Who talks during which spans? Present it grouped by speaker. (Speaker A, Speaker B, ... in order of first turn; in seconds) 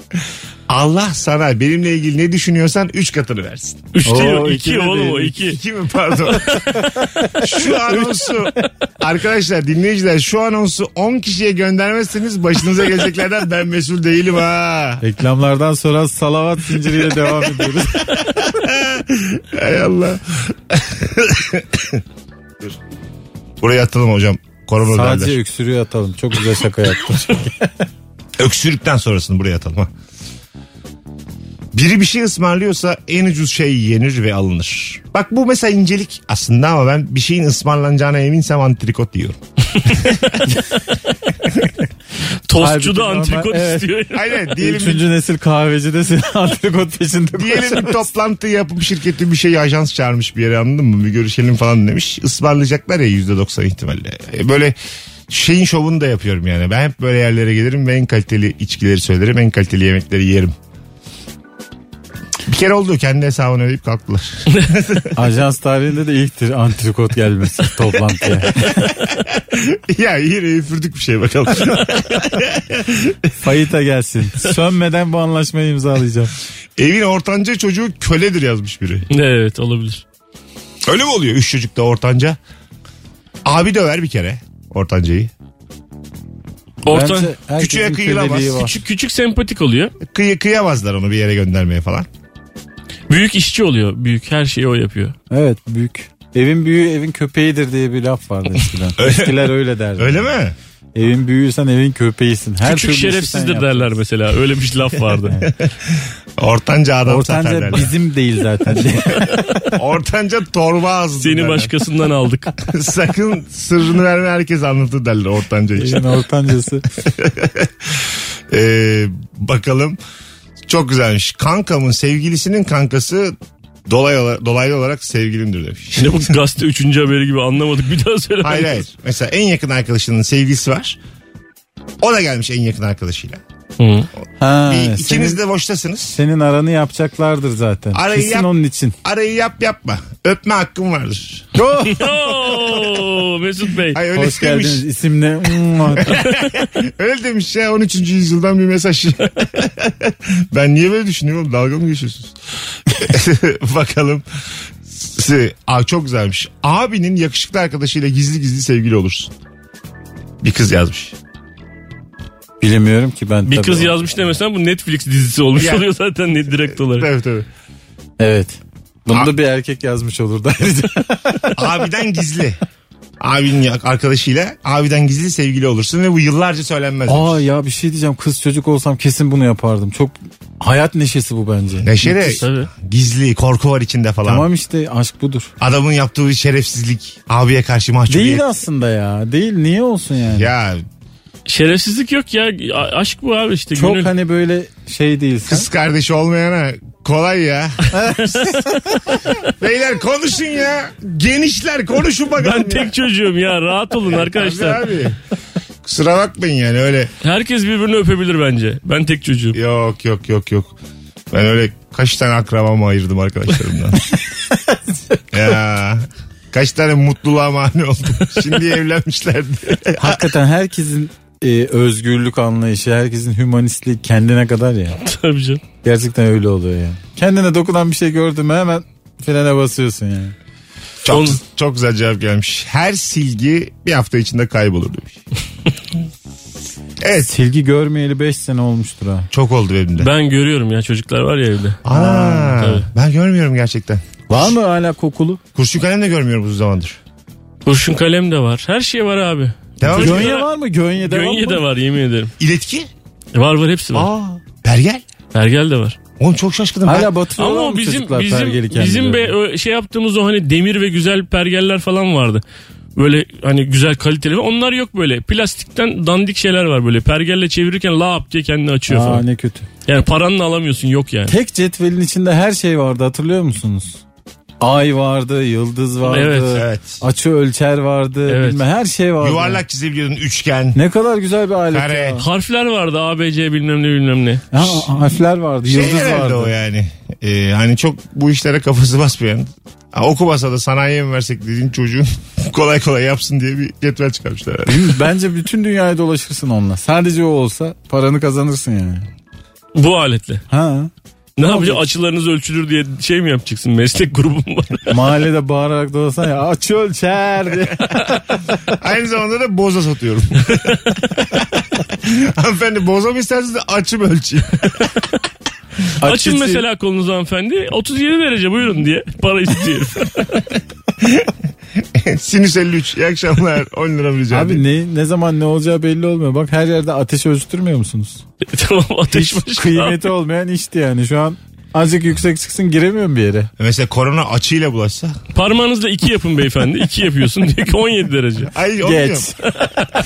Speaker A: 0.7-3.9, 5.4-15.0, 18.2-22.0, 23.6-25.4, 28.4-29.9, 31.7-40.4, 44.1-45.0, 47.4-54.8, 55.3-60.5, 62.5-65.1, 69.1-73.3, 76.8-79.1, 80.8-82.4, 83.4-85.3, 87.6-88.7, 90.0-92.1, 99.0-100.5, 105.5-107.9, 109.7-111.7, 112.6-116.1, 117.0-120.0, 120.7-123.3, 123.8-126.3, 128.4-131.0, 132.0-133.4, 134.6-136.2, 137.9-138.5, 139.0-141.5, 143.9-144.8, 145.9-154.2, 154.8-159.3, 160.4-161.2, 165.6-165.8, 166.7-167.5, 171.5-172.6, 173.2-177.4, 181.8-184.5, 185.6-188.4, 190.3-190.8, 195.5-198.0, 199.5-202.9, 204.1-205.2, 205.8-207.1, 209.5-210.8, 211.3-214.0, 215.3-220.3, 231.0-235.2, 237.0-237.3, 239.3-240.1, 241.8-244.0, 245.5-247.0, 249.8-250.4, 252.4-252.9, 253.9-255.0, 256.2-257.1, 276.5-277.0, 279.2-280.8, 281.7-282.2, 285.6-295.0, 308.7-314.9, 321.0-324.6, 333.6-335.2, 338.4-339.3
Speaker B: 3.9-5.6, 42.5-44.4, 79.1-80.0, 86.8-87.3, 88.5-89.9, 93.1-95.1, 102.6-105.5, 111.2-112.6, 126.0-128.8, 133.8-134.1, 141.8-144.0, 163.4-167.1, 182.2-182.7, 191.4-194.1, 202.3-204.8, 207.2-209.6, 225.0-225.6, 231.1-231.4, 240.0-241.9, 242.5-242.9, 247.6-252.3, 253.3-254.1, 255.3-256.0, 257.4-262.4, 262.9-269.2, 269.9-271.3, 276.0-276.6, 278.3-278.6, 282.2-284.5, 299.7-300.4, 301.4-304.9, 316.0-320.4, 328.4-330.1, 335.3-338.5
Speaker C: 4.0-5.3, 6.8-8.5, 15.0-18.3, 24.8-27.8, 42.5-43.9, 44.6-48.1, 65.1-68.9, 73.4-76.3, 86.9-88.7, 95.3-100.3, 100.9-103.9, 107.0-109.8, 115.8-116.8, 134.4-135.4, 136.1-138.9, 141.5-142.2, 144.1-146.2, 162.6-164.0, 168.2-171.7, 177.1-182.3, 184.2-185.5, 188.1-190.5, 193.7-195.7, 197.9-199.1, 220.0-225.0, 225.8-230.3, 237.2-239.3, 241.9-242.5, 244.3-245.4, 249.9-251.6, 256.8-259.3, 268.9-269.7, 271.3-274.0, 274.6-279.6, 280.7-282.2, 284.5-286.5, 294.7-299.1, 300.5-300.9, 301.4-301.8, 304.9-308.6, 316.0-316.6, 324.3-328.2, 329.1-333.5, 338.8-339.4